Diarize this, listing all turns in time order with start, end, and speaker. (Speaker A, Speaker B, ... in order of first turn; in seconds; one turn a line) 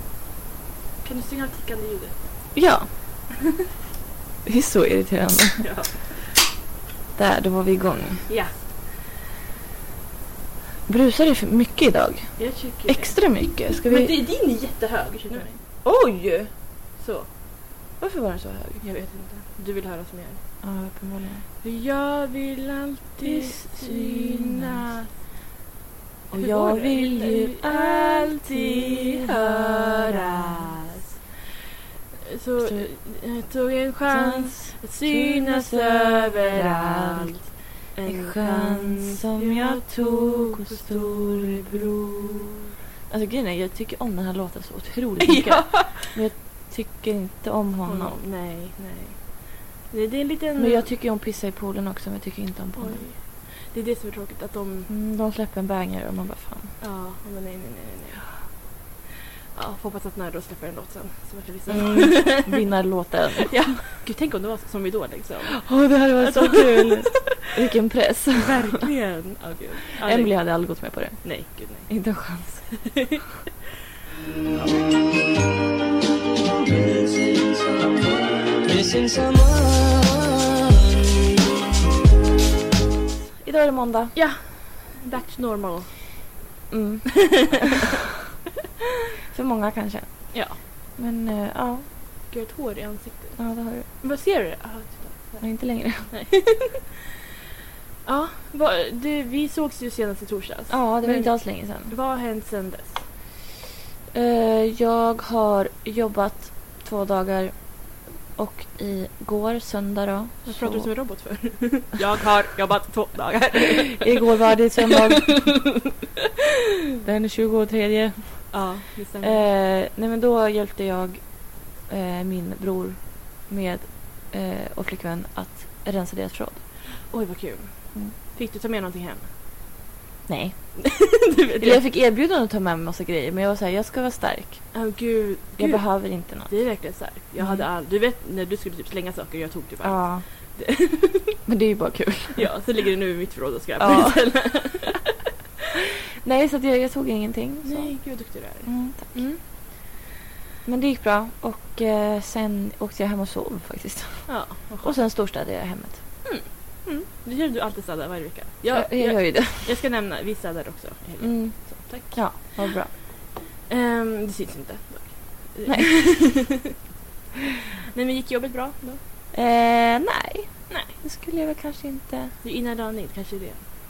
Speaker A: 1.0-2.5
Speaker B: 2.5-2.9
Speaker B: 4.4-5.7
Speaker A: 5.6-6.2
Speaker B: 7.2-8.3
Speaker A: 8.2-8.7
Speaker B: 10.9-14.2
Speaker A: 12.4-13.2
Speaker A: 13.8-15.6
Speaker B: 15.3-16.5
Speaker A: 17.0-17.3
Speaker B: 18.0-18.8
Speaker A: 18.8-20.4
Speaker B: 20.6-21.4
Speaker A: 21.6-25.1
Speaker B: 23.2-24.9
Speaker A: 26.3-31.1
Speaker B: 26.3-30.5
Speaker A: 32.2-42.6
Speaker B: 32.6-32.9
Speaker B: 34.1-37.5
Speaker B: 38.0-42.5
Speaker B: 43.1-48.2
Speaker A: 45.2-46.1
Speaker A: 47.8-50.9
Speaker B: 50.6-53.1
Speaker A: 52.8-54.9
Speaker B: 54.9-56.8
Speaker A: 56.8-58.6
Speaker A: 59.5-62.7
Speaker B: 61.7-63.9
Speaker A: 63.4-67.2
Speaker B: 65.6-68.8
Speaker A: 68.3-72.0
Speaker B: 70.0-73.0
Speaker A: 72.9-73.2
Speaker C: 74.5-75.4
Speaker C: 76.5-81.2
Speaker B: 83.4-84.1
Speaker A: 84.1-86.2
Speaker B: 86.7-87.7
Speaker B: 89.3-91.9
Speaker A: 90.3-90.6
Speaker A: 92.3-96.9
Speaker B: 93.4-93.9
Speaker B: 95.4-96.1
Speaker A: 98.0-103.0
Speaker B: 100.7-101.9
Speaker B: 104.1-110.9
Speaker A: 110.5-114.3
Speaker B: 114.0-115.6
Speaker A: 114.8-115.6
Speaker B: 117.0-126.6
Speaker A: 118.5-119.4
Speaker A: 127.0-129.3
Speaker B: 130.3-134.8
Speaker A: 130.8-131.8
Speaker A: 134.7-141.4
Speaker B: 135.6-136.6
Speaker B: 137.4-137.7
Speaker B: 139.8-140.2
Speaker B: 141.5-142.5
Speaker A: 142.3-145.1
Speaker B: 143.8-144.6
Speaker B: 146.2-149.3
Speaker A: 147.6-149.4
Speaker B: 150.7-156.0
Speaker A: 154.3-155.0
Speaker A: 156.2-162.7
Speaker B: 158.7-159.8
Speaker B: 161.2-163.0
Speaker A: 163.7-166.7
Speaker B: 165.7-165.9
Speaker A: 167.9-169.0
Speaker B: 169.3-172.3
Speaker A: 172.4-173.6